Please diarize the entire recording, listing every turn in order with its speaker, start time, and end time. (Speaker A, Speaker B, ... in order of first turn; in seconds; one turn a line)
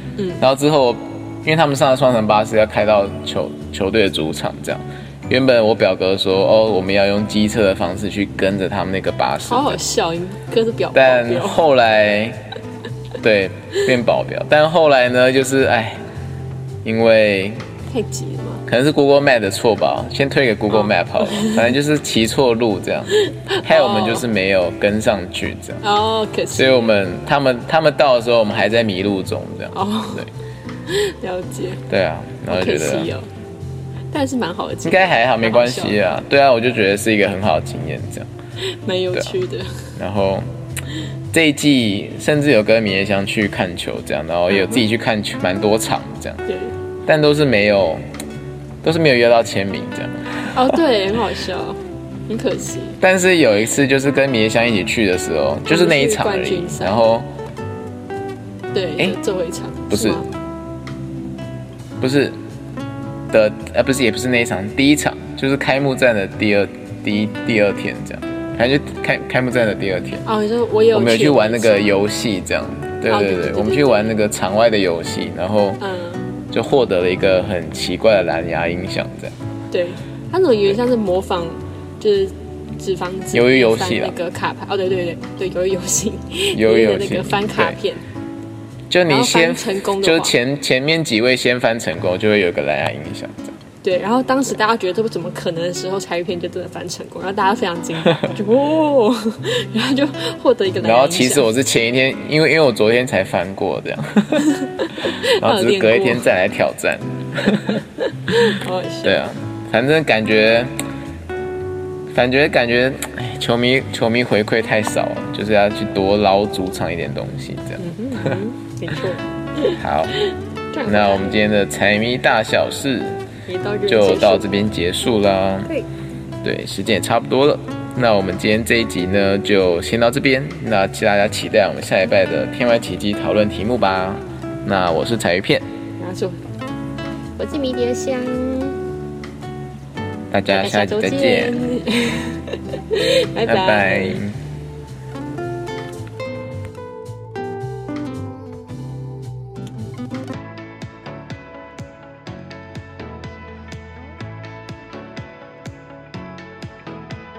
Speaker A: 0.2-0.4
Speaker B: 0.4-9.8
Speaker A: 9.4-11.6
Speaker B: 10.9-12.5
Speaker B: 13.2-16.0
Speaker B: 16.8-17.7
Speaker A: 17.9-18.6
Speaker B: 18.7-25.8
Speaker A: 20.7-21.7
Speaker A: 23.1-24.3
Speaker A: 25.8-26.9
Speaker B: 26.5-30.3
Speaker A: 29.7-30.3
Speaker A: 30.9-31.8
Speaker B: 31.9-33.1
Speaker A: 32.5-33.3
Speaker A: 34.1-36.1
Speaker B: 34.8-38.3
Speaker A: 38.6-39.9
Speaker B: 40.0-40.5
Speaker B: 41.3-46.4
Speaker A: 44.5-44.8
Speaker A: 46.5-46.7
Speaker B: 47.0-48.0
Speaker B: 48.8-50.8
Speaker A: 50.5-53.0
Speaker B: 53.0-57.3
Speaker A: 55.7-57.0
Speaker A: 58.7-60.3
Speaker B: 59.9-60.2
Speaker B: 62.0-62.4
Speaker B: 63.3-70.2
Speaker A: 70.2-72.0
Speaker B: 70.9-75.8
Speaker A: 73.1-74.2
Speaker A: 75.8-76.4
Speaker B: 76.5-79.3
Speaker A: 79.7-88.0
Speaker B: 83.3-84.1
Speaker B: 86.5-87.8
Speaker B: 88.9-93.5
Speaker A: 89.1-90.3
Speaker A: 93.8-101.5
Speaker B: 100.8-104.5
Speaker A: 104.3-106.3
Speaker B: 105.0-107.8
Speaker A: 107.7-109.2
Speaker B: 109.0-110.7
Speaker B: 112.1-118.3
Speaker A: 117.8-121.4
Speaker B: 119.7-120.2
Speaker B: 120.8-123.2
Speaker A: 123.5-124.5
Speaker B: 123.9-125.7
Speaker B: 126.4-135.6
Speaker A: 136.0-136.4
Speaker A: 137.4-138.8
Speaker B: 140.3-141.6
Speaker A: 140.5-144.2
Speaker B: 143.4-144.4